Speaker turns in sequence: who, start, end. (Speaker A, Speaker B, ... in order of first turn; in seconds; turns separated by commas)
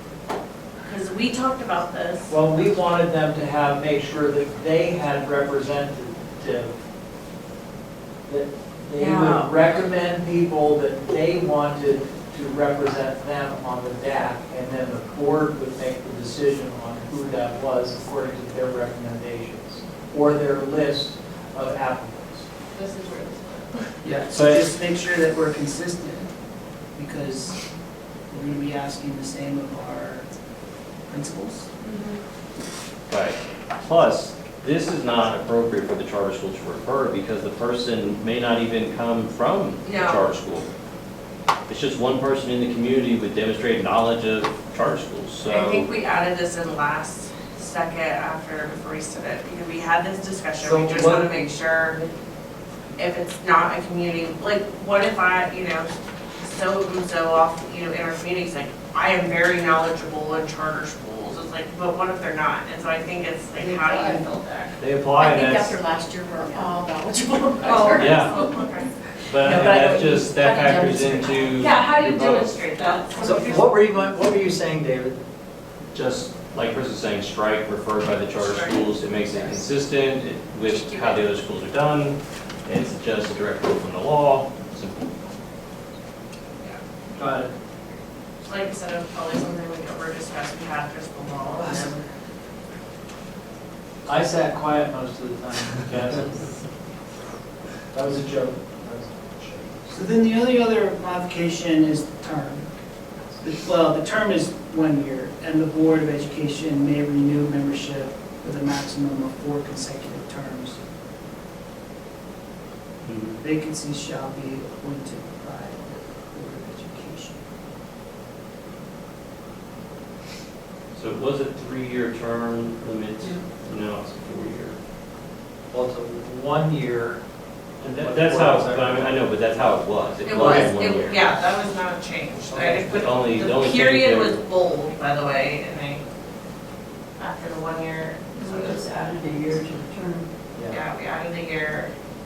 Speaker A: 0.8-2.3, Speaker B: 2.3-6.7, Speaker B: 8.3-22.5, Speaker A: 9.0-9.5, Speaker A: 22.7-23.9, Speaker C: 24.0-26.3, Speaker D: 24.3-24.7, Speaker C: 27.0-27.6, Speaker C: 28.3-30.3, Speaker C: 31.1-31.7, Speaker A: 31.8-32.2, Speaker D: 33.1-40.7, Speaker A: 39.8-40.3, Speaker D: 41.7-45.9, Speaker A: 45.5-52.0, Speaker B: 50.6-51.5, Speaker A: 53.0-64.7, Speaker C: 63.6-64.2, Speaker D: 64.8-65.8, Speaker E: 65.2-68.7, Speaker A: 67.6-69.7, Speaker D: 67.9-68.4, Speaker D: 69.3-73.0, Speaker E: 69.4-71.8, Speaker A: 71.6-73.7, Speaker B: 73.1-75.2, Speaker D: 75.9-85.1, Speaker A: 78.3-78.9, Speaker B: 87.2-87.5, Speaker A: 88.4-92.0, Speaker C: 91.6-92.0, Speaker B: 94.1-96.5, Speaker B: 97.9-99.9, Speaker C: 99.9-102.7, Speaker C: 103.4-110.8, Speaker D: 113.0-113.4, Speaker C: 113.4-117.4, Speaker D: 120.9-124.8, Speaker B: 125.7-127.2, Speaker B: 127.8-129.2, Speaker D: 127.8-131.2, Speaker A: 130.2-136.0, Speaker B: 130.4-130.7, Speaker B: 132.4-132.8, Speaker D: 132.5-134.4, Speaker A: 137.2-139.0, Speaker E: 138.4-140.3, Speaker A: 140.7-141.9